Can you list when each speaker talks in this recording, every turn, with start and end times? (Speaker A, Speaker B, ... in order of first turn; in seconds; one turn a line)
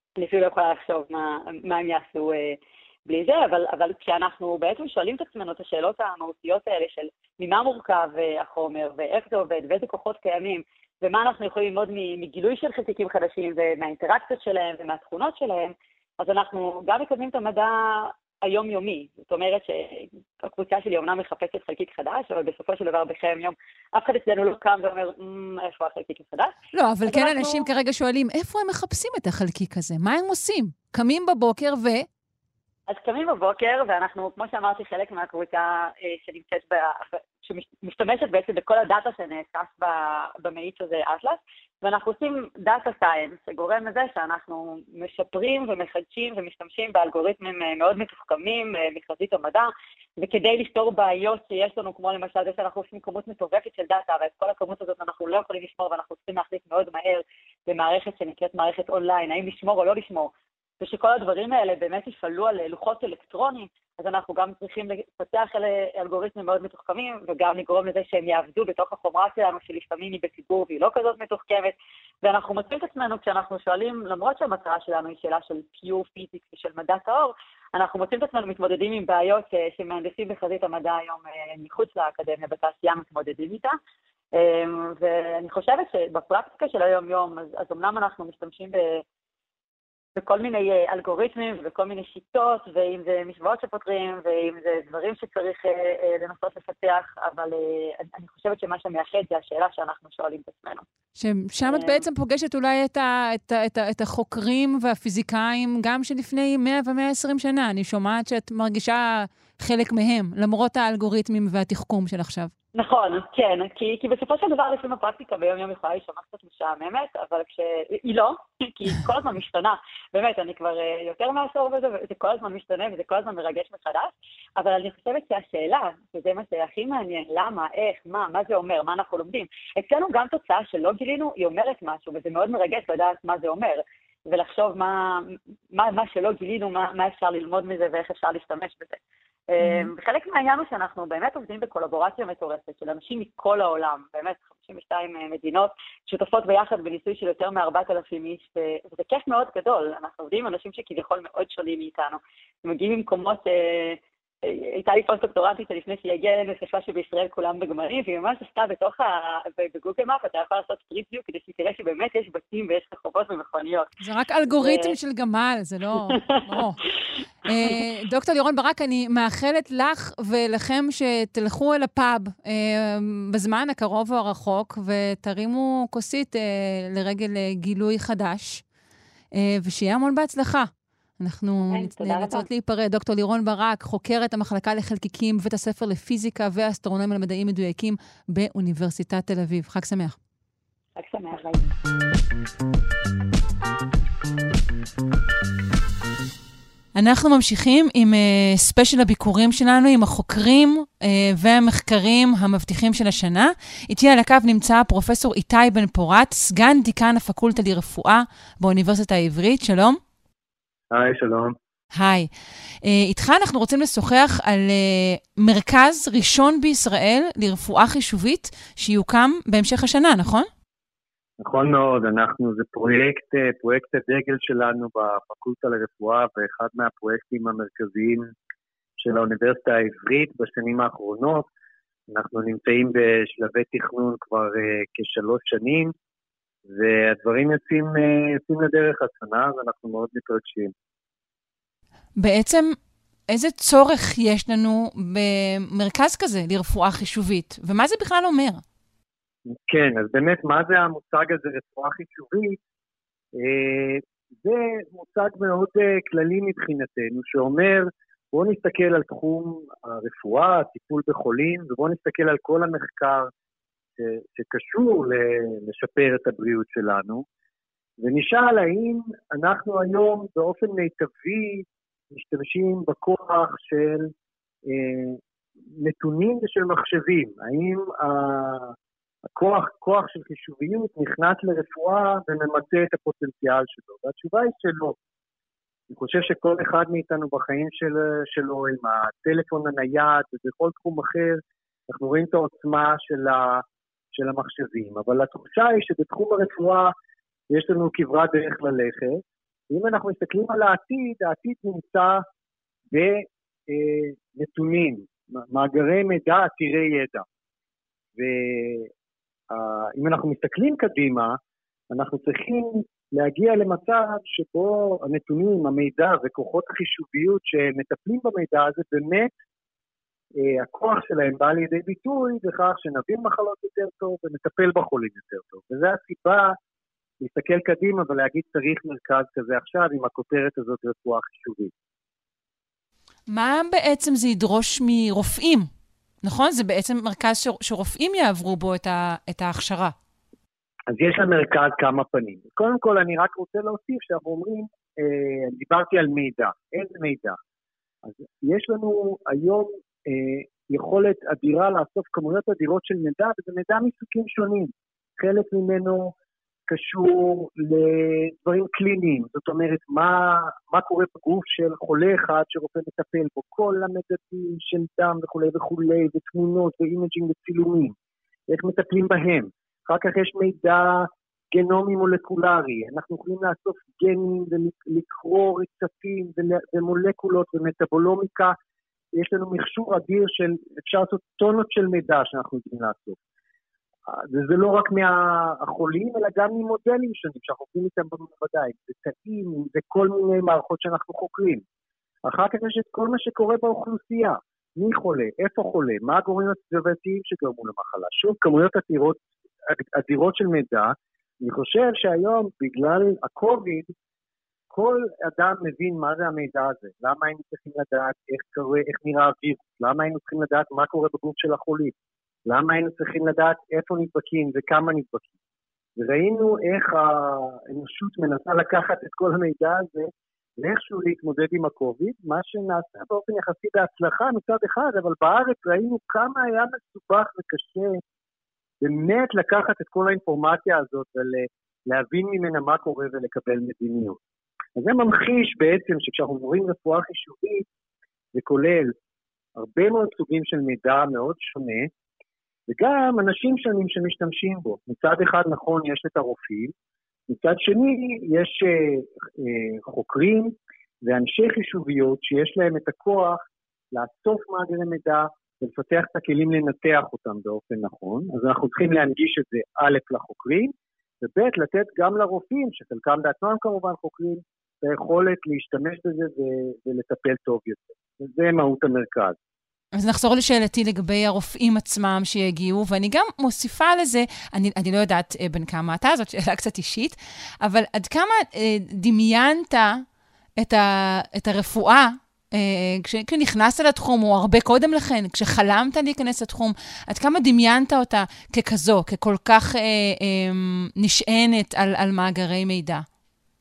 Speaker A: 0.2-27.7
Speaker B: 26.7-32.1
Speaker A: 32.9-83.8
Speaker A: 84.3-89.0
Speaker A: 90.2-100.8
Speaker B: 101.2-112.5
Speaker A: 101.6-102.0
Speaker A: 112.8-163.9
Speaker B: 139.6-139.9
Speaker B: 164.0-166.8
Speaker A: 164.6-164.9
Speaker A: 166.1-166.8
Speaker B: 167.4-178.6
Speaker B: 179.3-190.2
Speaker A: 181.7-182.5
Speaker A: 191.0-191.6
Speaker B: 196.9-210.0
Speaker C: 210.9-211.6
Speaker B: 211.9-212.3
Speaker B: 212.8-220.5
Speaker C: 221.4-228.3
Speaker C: 229.0-231.5
Speaker C: 232.1-235.9
Speaker C: 236.7-240.7
Speaker B: 242.2-242.8
Speaker B: 243.3-248.6
Speaker C: 249.5-252.6
Speaker C: 253.3-263.3
Speaker C: 264.0-267.2
Speaker C: 268.0-274.1
Speaker C: 274.7-275.2
Speaker C: 275.8-278.7
Speaker C: 279.4-285.0
Speaker C: 285.9-296.9
Speaker C: 297.5-302.2
Speaker C: 302.9-307.2
Speaker C: 308.2-308.9
Speaker C: 309.5-311.4
Speaker C: 311.9-319.3
Speaker C: 320.4-326.6
Speaker C: 327.2-331.7
Speaker B: 333.3-335.7
Speaker B: 336.2-339.9
Speaker C: 340.9-347.4
Speaker C: 348.1-356.1
Speaker C: 356.7-367.9
Speaker C: 368.5-378.6
Speaker C: 379.2-383.2
Speaker C: 384.1-391.6
Speaker C: 392.3-403.9
Speaker C: 404.7-411.9
Speaker C: 412.5-415.3
Speaker C: 416.0-428.0
Speaker C: 428.8-434.2
Speaker C: 434.8-437.6
Speaker C: 438.4-438.9
Speaker C: 439.6-441.9
Speaker C: 442.7-446.7
Speaker C: 447.3-453.4
Speaker C: 453.9-469.4
Speaker B: 470.0-480.0
Speaker B: 480.6-493.1